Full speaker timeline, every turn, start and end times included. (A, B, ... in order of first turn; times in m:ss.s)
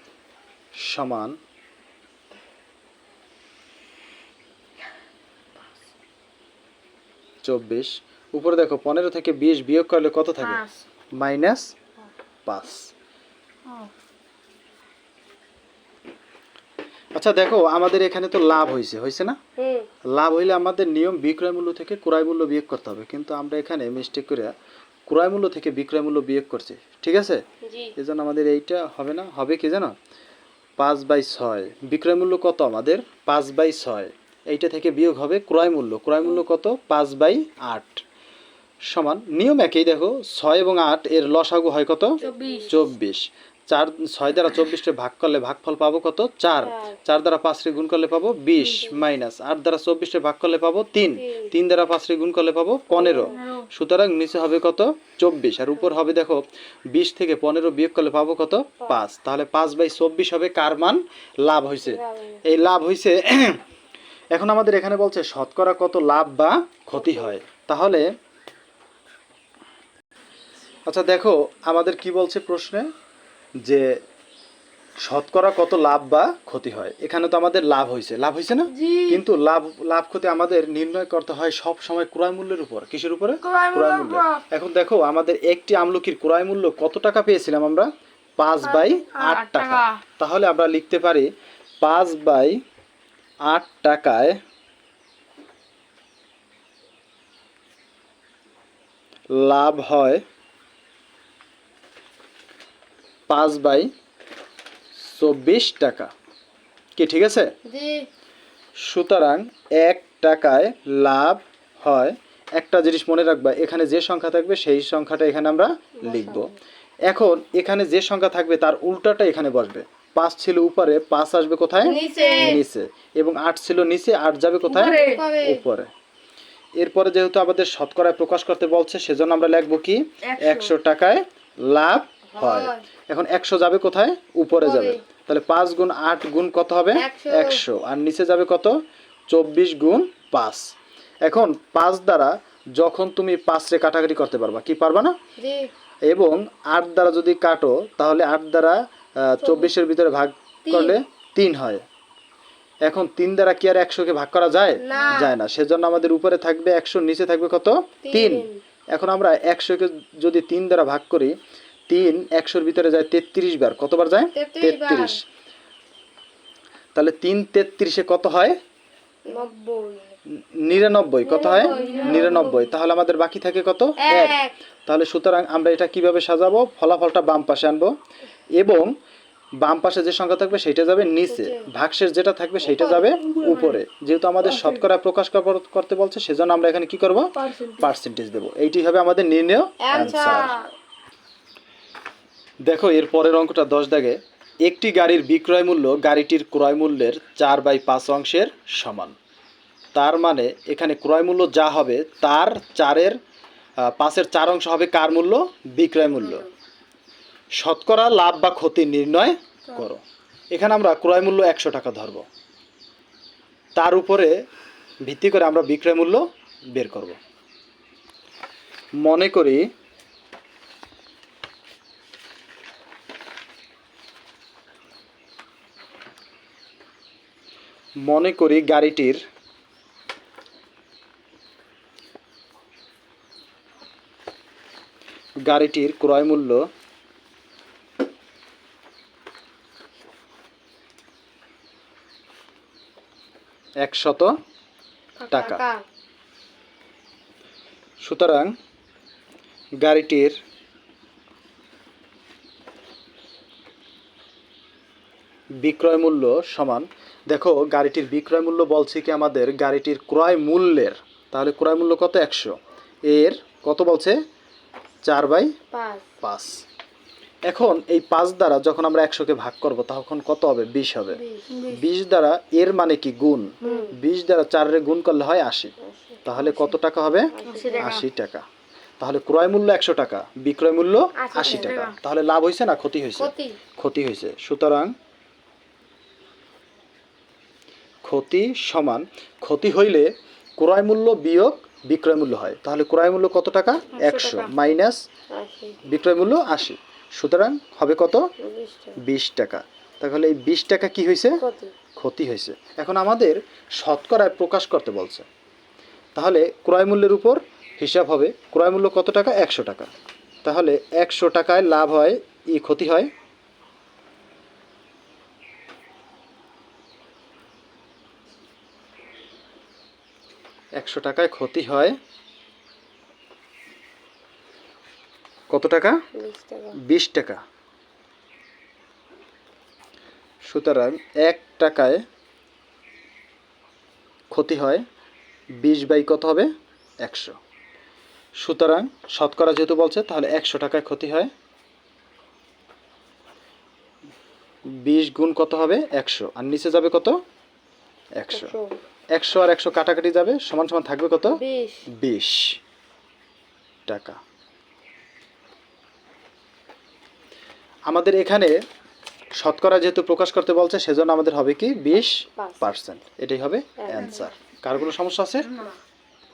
0:00.8-0:01.4 A
0:07.4-0:10.6 A
0:10.4-0:10.8 B
0:11.2-0:11.7 A
0:12.5-0:12.9 A
0:13.7-0:13.9 B
0:17.2-0:19.4 A
0:19.6-0:19.9 C
0:20.1-0:24.5 A
0:25.1-0:27.4 A
0:27.6-0:27.9 C
0:28.0-0:30.0 A
0:30.8-0:38.0 A
0:38.9-1:03.6 A
0:42.2-0:42.8 C
0:42.2-0:42.9 B
0:46.6-0:47.0 C
0:48.6-0:49.0 C
0:51.2-0:51.5 C
0:53.0-0:53.5 C
0:53.2-0:53.7 B
1:01.8-1:02.4 C
1:04.3-1:08.1 A
1:07.0-1:07.4 C
1:10.9-1:12.9 A
1:15.0-1:31.3 A
1:18.8-1:19.2 C
1:23.4-1:24.4 B
1:28.7-1:29.0 C
1:29.1-1:30.0 B
1:31.8-1:32.6 A
1:33.5-1:34.4 A
1:39.4-1:40.2 A
1:43.3-1:43.9 A
1:45.0-1:46.1 A
1:47.0-1:47.5 A
1:47.7-1:48.1 C
1:48.9-1:56.5 A
1:56.0-1:56.6 C
1:57.1-2:05.9 A
2:01.8-2:02.6 C
2:02.2-2:02.5 B
2:04.7-2:05.3 B
2:04.7-2:05.6 C
2:06.8-2:18.7 A
2:10.2-2:10.8 B
2:12.3-2:12.8 C
2:14.5-2:15.0 C
2:16.9-2:17.6 C
2:19.3-2:20.6 A
2:21.2-2:25.1 A
2:25.4-2:25.7 C
2:26.1-2:31.8 A
2:29.4-2:29.7 C
2:30.7-2:31.0 C
2:32.8-2:41.4 A
2:34.8-2:35.3 C
2:38.0-2:38.6 C
2:41.9-2:45.2 A
2:44.4-2:45.2 C
2:47.0-2:48.6 A
2:49.3-2:50.2 C
2:50.4-2:57.9 A
2:51.2-2:52.7 C
2:51.6-2:52.6 B
2:54.0-2:54.6 C
2:58.6-2:58.9 A
2:59.6-3:10.6 A
3:01.3-3:01.7 C
3:02.6-3:03.2 C
3:03.2-3:03.8 B
3:04.4-3:04.8 B
3:07.4-3:07.9 B
3:09.8-3:10.7 C
3:12.6-3:19.2 A
3:19.9-3:23.2 A
3:23.8-3:26.5 A
3:27.6-3:30.0 A
3:30.5-3:32.2 A
3:33.8-3:34.3 A
3:35.0-3:37.2 A
3:39.0-3:39.6 A
3:48.0-3:49.2 A
3:55.4-3:56.6 A
4:03.8-4:04.3 A
4:05.2-4:05.8 C
4:05.3-4:05.6 A
4:08.0-4:08.5 A
4:09.8-4:10.4 A
4:15.6-4:22.6 A
4:23.1-4:24.2 A
4:25.0-4:25.6 A
4:25.7-4:26.1 C
4:26.2-4:26.6 A
4:27.5-4:31.2 A
4:31.1-4:31.5 C
4:31.5-4:31.8 B
4:31.7-4:35.7 A
4:33.6-4:34.0 C
4:35.8-4:36.6 C
4:36.2-4:38.4 A
4:37.3-4:38.0 C
4:37.5-4:38.0 B
4:39.0-4:44.9 A
4:41.2-4:41.9 C
4:41.4-4:42.0 B
4:43.2-4:43.6 C
4:48.0-4:50.1 A
4:50.6-4:55.0 A
4:54.0-4:54.6 B
4:55.3-4:55.8 C
4:55.9-4:58.2 A
4:58.4-4:59.0 C
4:59.0-5:01.4 A
5:01.4-5:01.8 C
5:02.0-5:05.3 A
5:06.2-5:09.9 A
5:10.4-5:13.1 A
5:20.8-5:22.0 A
5:25.5-5:26.0 A
5:26.1-5:26.8 C
5:26.8-5:27.4 A
5:30.4-5:32.0 A
5:34.3-5:34.8 A
5:35.6-5:36.5 A
5:37.0-5:37.4 A
5:38.4-5:41.3 A
5:44.8-5:47.2 A
5:48.2-5:48.5 A
5:48.3-5:48.8 C
5:49.2-5:51.4 A
5:51.3-5:51.8 C
5:52.0-5:52.6 A
5:53.9-5:54.2 A
5:57.9-5:58.5 A
5:59.4-6:05.5 A
6:02.3-6:02.7 C
6:03.8-6:04.3 C
6:05.5-6:05.8 B